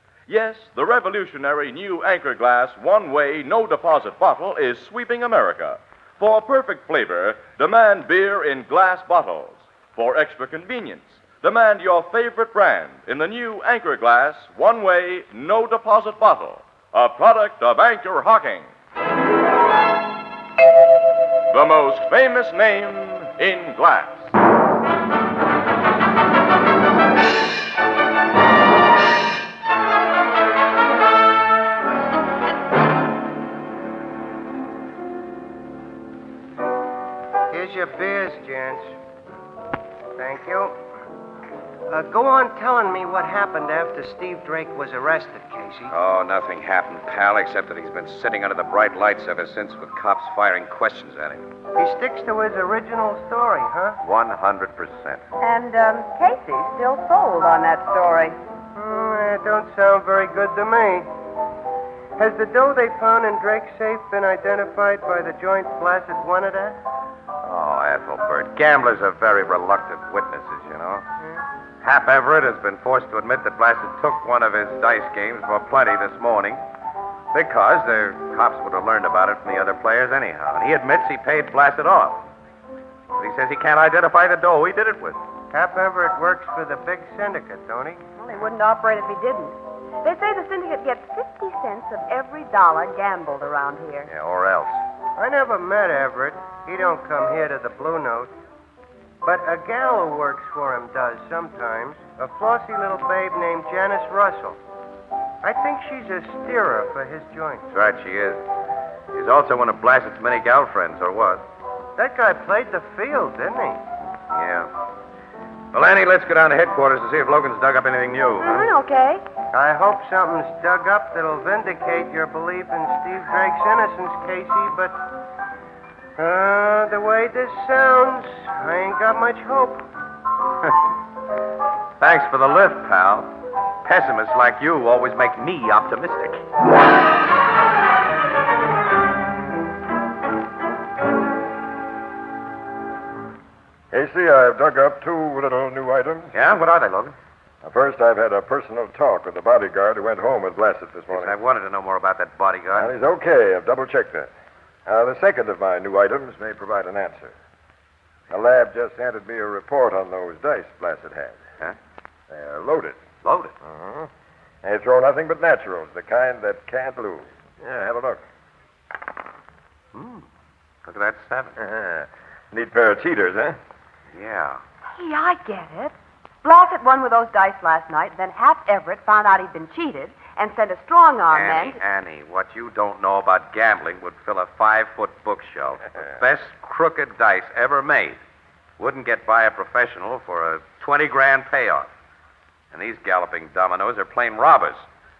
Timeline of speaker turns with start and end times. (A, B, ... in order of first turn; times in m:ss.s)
0:00.3-0:18.7 A
0:21.5-0:24.3 A
0:37.5-0:38.9 B
0:40.2-0:40.8 B
0:41.9-0:45.9 B
0:45.9-0:51.4 C
0:51.8-0:54.0 B
0:54.0-0:55.2 C
0:55.4-0:58.4 D
0:58.7-1:01.1 B
1:02.2-1:06.8 B
1:07.4-1:11.0 C
1:11.8-1:16.6 C
1:17.3-1:22.2 C
1:23.1-1:25.2 C
1:25.5-1:28.0 B
1:28.2-1:34.1 D
1:34.1-1:34.8 C
1:35.2-1:38.3 B
1:39.2-1:44.6 B
1:45.4-1:47.6 B
1:47.7-1:48.4 C
1:49.1-1:51.4 C
1:52.0-1:53.8 B
1:54.3-1:54.7 C
1:55.7-1:58.6 C
1:58.4-1:59.2 D
1:59.5-2:05.0 B
2:06.2-2:09.8 B
2:12.0-2:13.3 C
2:13.8-2:16.4 C
2:23.9-2:26.3 E
2:26.3-2:27.2 C
2:27.6-2:31.3 E
2:31.1-2:32.9 C
2:32.7-2:34.3 E
2:34.8-2:37.3 E
2:38.3-2:41.4 E
2:42.3-2:43.0 E
2:43.2-2:43.5 C
2:43.6-2:44.1 E
2:44.6-2:48.2 E
2:49.9-2:50.2 C
2:50.8-2:51.5 C
2:51.6-2:53.6 E
2:54.1-2:54.6 C
2:54.9-3:01.8 D
3:01.3-3:08.2 C
3:08.8-3:11.9 C
3:12.7-3:14.8 C